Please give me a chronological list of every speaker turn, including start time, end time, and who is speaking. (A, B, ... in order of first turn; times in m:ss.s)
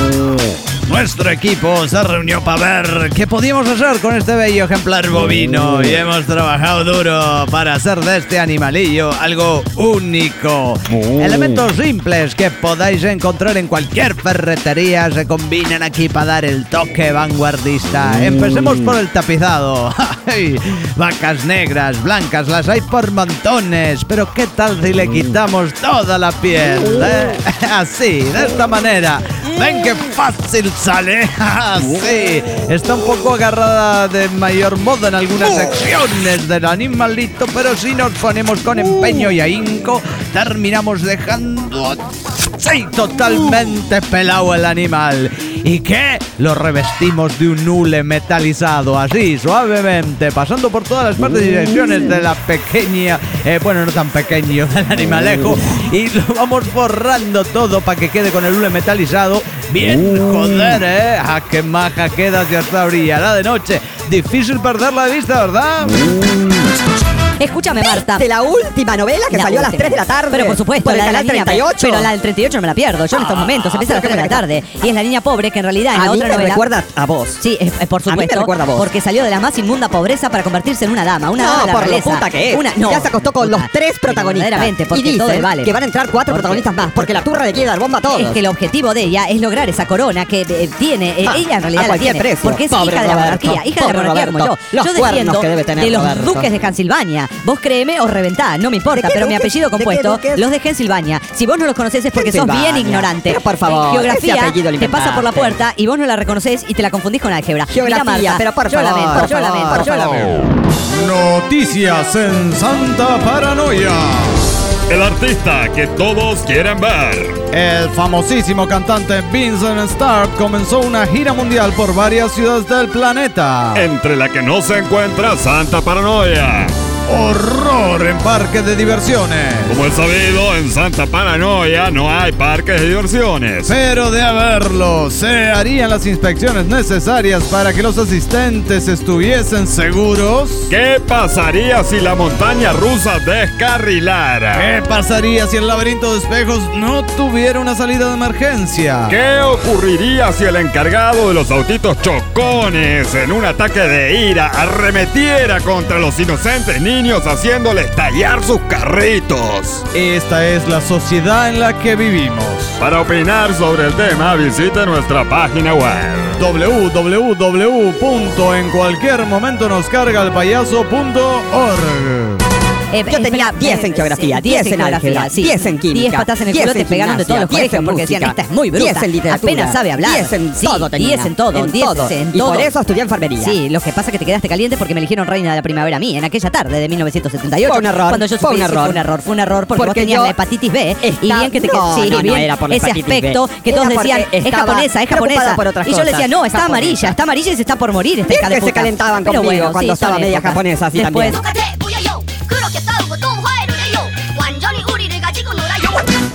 0:00.8-1:06.0 A
1:06.1-1:06.5 B
1:07.4-1:08.2 C
1:07.8-1:12.1 B
1:09.3-1:16.6 C
1:13.1-1:14.4 B
1:15.9-1:17.4 B
1:17.4-1:25.7 C
1:18.1-1:18.9 B
1:21.4-1:28.4 B
1:26.3-1:26.6 C
1:28.1-1:50.4 C
1:31.2-1:36.5 B
1:38.9-1:40.4 B
1:42.1-1:45.5 B
1:47.7-1:50.4 B
1:50.9-1:52.0 A
1:51.2-1:52.7 D
1:53.8-1:54.4 A
1:54.9-1:57.4 E
1:57.5-1:58.0 A
1:59.9-2:00.7 D
2:02.9-2:03.9 A
2:03.7-2:06.7 E
2:07.1-2:08.4 A
2:09.4-2:09.8 A
2:09.7-2:13.7 E
2:14.4-2:15.6 A
2:20.0-2:20.7 A
2:20.7-2:24.7 E
2:24.5-2:25.4 A
2:28.6-2:29.1 A
2:29.1-2:39.8 E
2:40.3-2:41.0 D
2:41.8-2:42.2 D
2:42.8-2:46.4 E
2:46.4-2:47.0 D
2:47.9-2:52.1 D
2:52.9-3:02.7 C
2:53.1-3:03.6 B
3:03.4-3:21.4 C
3:07.6-3:09.0 B
3:09.7-3:10.3 B
3:11.0-3:17.2 B
3:18.3-3:21.4 B
3:21.4-3:26.0 F